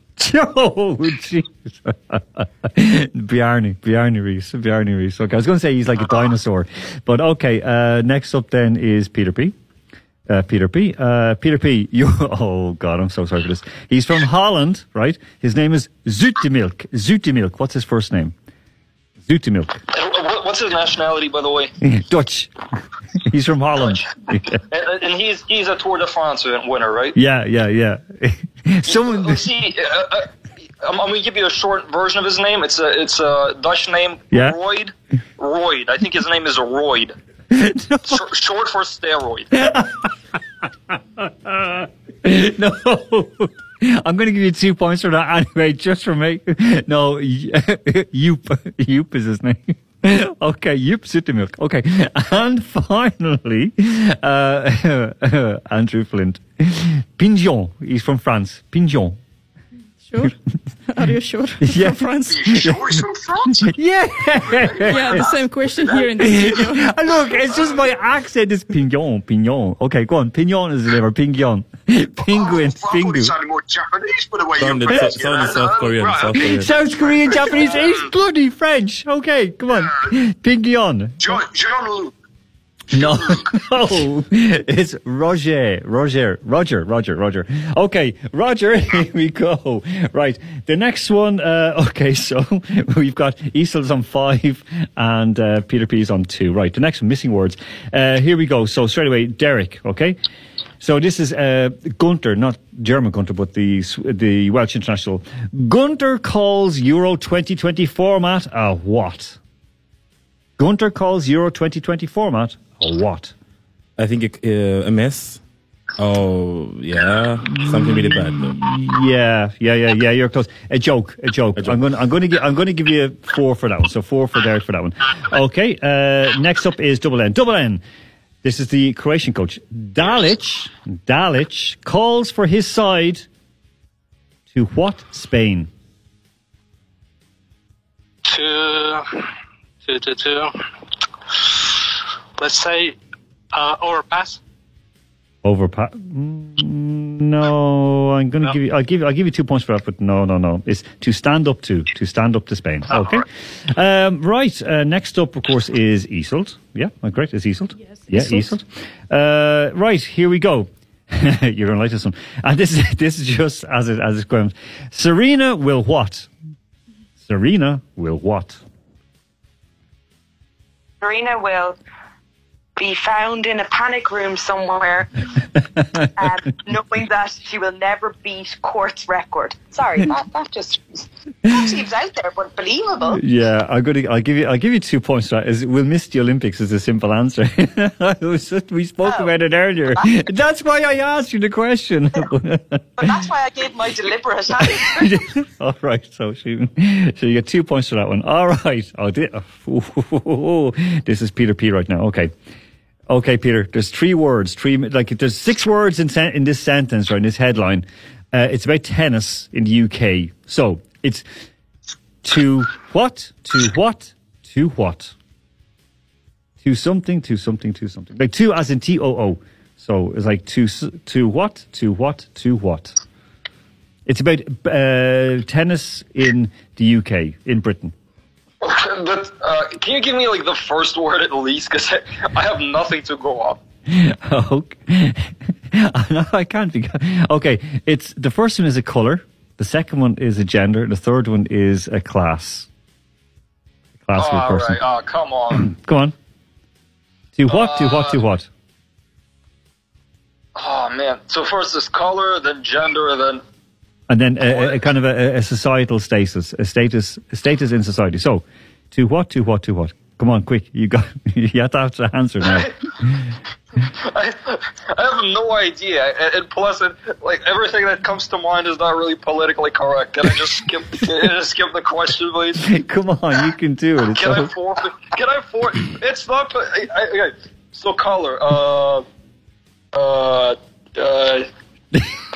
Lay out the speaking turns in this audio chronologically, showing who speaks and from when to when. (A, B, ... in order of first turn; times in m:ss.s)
0:00.2-0:09.6 A
0:10.3-0:18.4 A
0:19.2-0:19.8 A
0:19.9-0:21.7 B
0:21.8-0:22.5 A
0:23.2-0:24.6 A
0:24.7-0:27.2 B
0:27.1-0:29.5 A
0:28.9-0:30.3 B
0:30.8-0:37.2 B
0:34.3-0:34.6 A
0:37.5-0:38.3 A
0:38.1-0:39.5 B
0:39.5-0:40.1 A
0:40.9-0:59.2 A
1:00.0-1:00.3 C
1:00.9-1:02.5 C
1:01.6-1:03.0 A
1:02.3-1:03.7 D
1:03.6-1:05.2 A
1:04.6-1:05.3 D
1:04.8-1:06.9 C
1:06.2-1:13.3 A
1:12.4-1:17.9 D
1:14.6-1:16.7 E
1:16.3-1:21.4 A
1:21.2-1:22.1 D
1:22.9-1:40.2 A
1:23.0-1:23.4 D
1:40.8-1:49.4 A
1:50.6-1:53.3 A
1:54.0-1:55.4 E
1:56.0-1:58.6 E
1:57.6-2:07.8 A
2:08.4-2:13.3 A
2:14.5-2:15.7 A
2:18.3-2:19.1 F
2:19.8-2:20.5 F
2:22.4-2:23.0 F
2:23.5-2:24.4 F
2:25.4-2:46.3 A
2:33.0-2:33.2 F
2:38.0-2:38.3 C
2:47.2-2:48.6 A
2:51.0-2:51.8 G
2:52.8-2:55.1 G
2:55.8-2:56.1 A
2:56.2-3:03.2 G
3:03.1-3:13.1 A
3:09.0-3:09.3 G
3:13.0-3:15.2 G
3:14.6-3:22.3 A
3:23.1-3:31.2 A
3:32.2-3:35.1 A
3:36.6-3:43.0 A
3:44.1-3:47.9 A
3:48.6-3:53.6 B
3:53.9-4:02.7 A
4:04.1-4:04.8 A
4:04.2-4:05.7 B
4:05.6-4:06.2 A
4:07.4-4:08.5 A
4:07.5-4:08.2 B
4:10.6-4:13.4 B
4:14.1-4:23.1 A
4:24.0-4:32.6 B
4:32.6-4:34.5 A
4:34.2-4:39.1 B
4:39.9-4:41.5 B